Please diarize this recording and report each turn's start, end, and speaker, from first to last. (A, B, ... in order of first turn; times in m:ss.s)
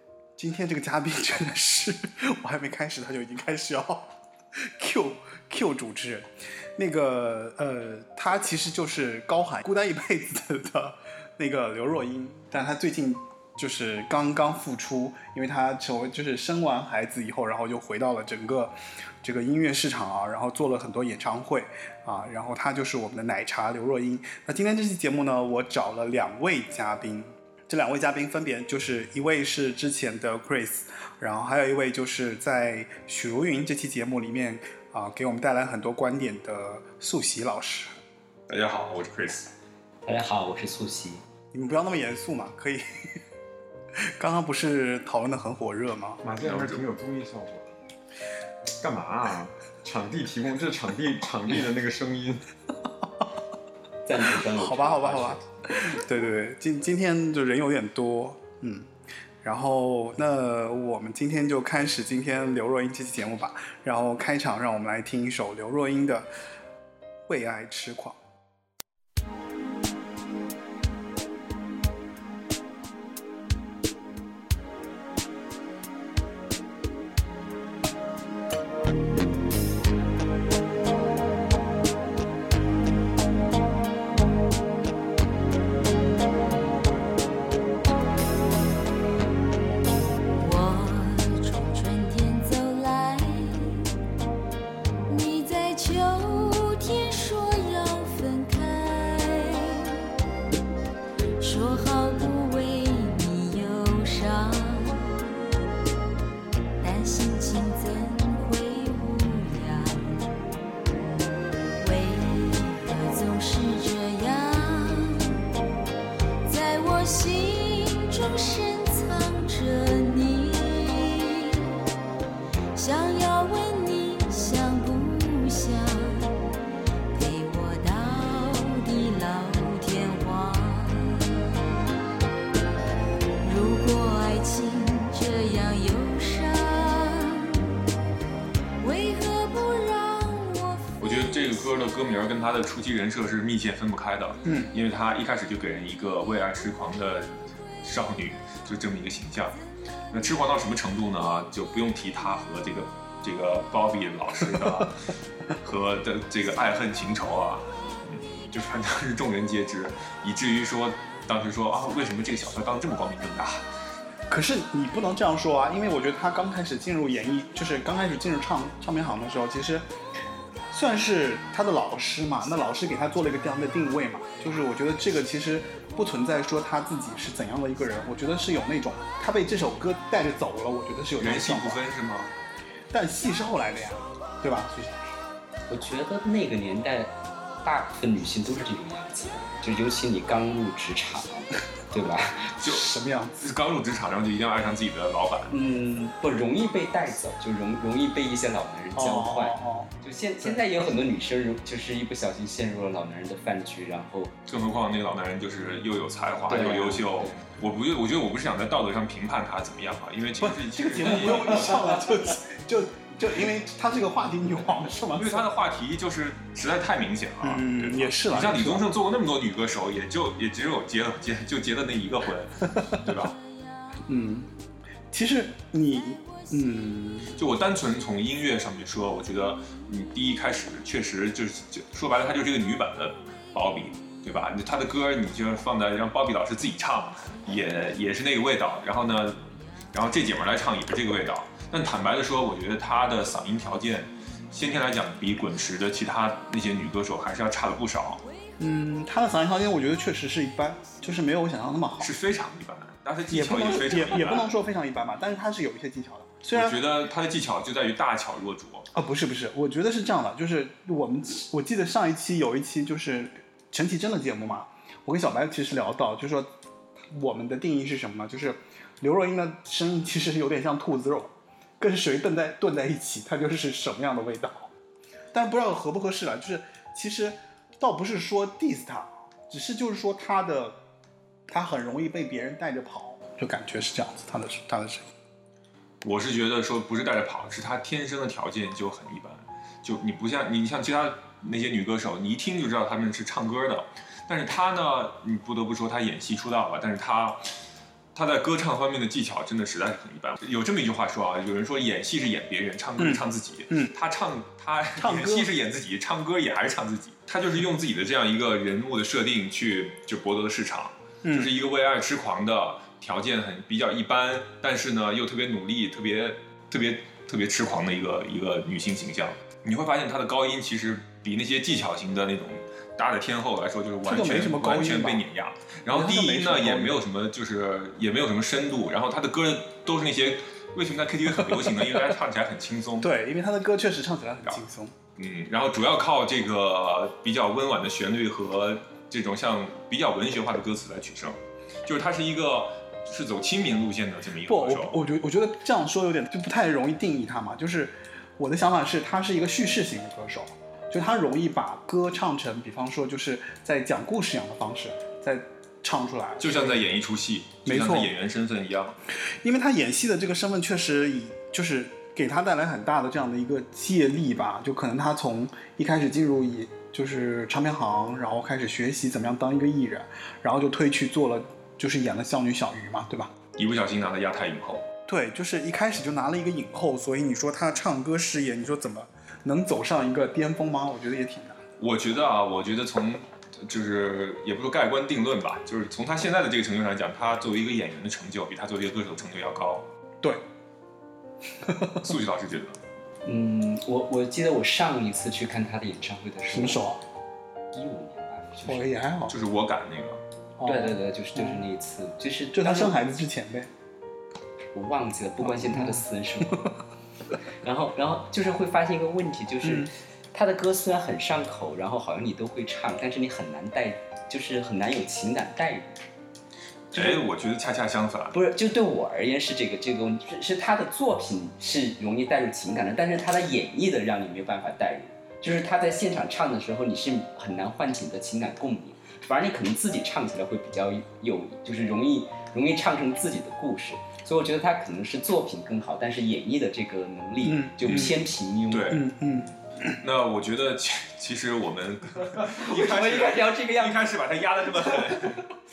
0:00.4-0:38.0 A
0:38.5-0:39.5 B
0:40.0-0:41.2 C
0:41.5-0:43.2 A
0:44.2-0:46.2 A
0:46.2-0:47.7 D
0:46.4-0:46.8 B
0:48.8-0:52.4 D
0:54.0-0:55.4 C
0:54.4-0:58.9 A
0:59.4-1:06.3 A
1:07.3-1:08.2 A
1:30.4-1:33.9 E
1:35.1-1:40.0 E
1:41.4-1:45.3 E
1:46.8-1:50.5 E
1:51.8-1:55.4 E
1:56.4-2:01.8 E
2:02.7-2:06.3 E
2:07.1-2:11.5 E
2:13.4-2:17.7 E
2:18.8-2:21.6 E
2:21.0-2:29.6 B
2:24.4-2:24.7 A
2:30.1-2:43.7 B
2:44.3-2:49.8 A
2:50.7-3:01.8 A
3:01.2-3:02.3 B
3:02.9-3:05.1 A
3:05.7-3:07.1 C
3:07.6-3:12.5 C
3:12.6-3:15.5 B
3:12.6-3:13.4 A
3:15.5-3:24.3 C
3:18.9-3:19.9 A
3:24.4-3:32.0 B
3:26.5-3:27.4 C
3:30.4-3:35.5 A
3:35.1-3:43.4 B
3:37.4-3:38.9 A
3:42.8-3:43.1 A
3:44.1-3:44.5 A
3:45.1-3:47.4 A
3:47.4-4:08.2 B
4:08.6-4:12.1 A
4:12.0-4:14.4 B
4:13.3-4:16.8 A
4:16.5-4:18.9 B
4:18.9-4:26.5 A
4:27.1-4:34.7 A
4:35.3-4:40.8 A
4:41.5-4:45.0 A
4:46.0-4:57.5 B
4:58.1-5:33.1 B
5:03.0-5:03.9 A
5:05.0-5:05.5 A
5:11.2-5:11.5 A
5:24.0-5:25.2 A
5:25.9-5:27.0 A
5:33.0-5:34.9 A
5:35.2-5:45.0 B
5:44.4-5:56.8 A
5:56.4-5:59.0 B
5:57.6-5:58.1 A
5:59.2-6:13.3 A
6:13.6-6:14.8 B
6:15.1-6:21.6 A
6:21.8-6:29.8 B
6:31.6-6:32.1 A
6:32.0-6:32.8 B
6:33.2-6:36.8 C
6:36.5-6:37.0 A
6:37.7-6:39.0 C
6:38.6-6:39.3 A
6:39.3-6:40.2 B
6:40.6-6:41.6 A
6:40.6-6:43.0 C
6:42.5-6:43.7 A
6:44.7-6:46.7 C
6:45.4-6:46.0 A
6:47.6-6:55.9 C
6:49.6-6:49.9 A
6:56.9-6:58.4 B
6:56.9-6:57.2 C
6:58.3-7:18.9 C
7:17.4-7:18.1 A
7:17.8-7:18.1 B
7:18.7-7:19.1 B
7:18.9-7:19.9 A
7:19.9-7:25.5 B
7:22.4-7:24.0 C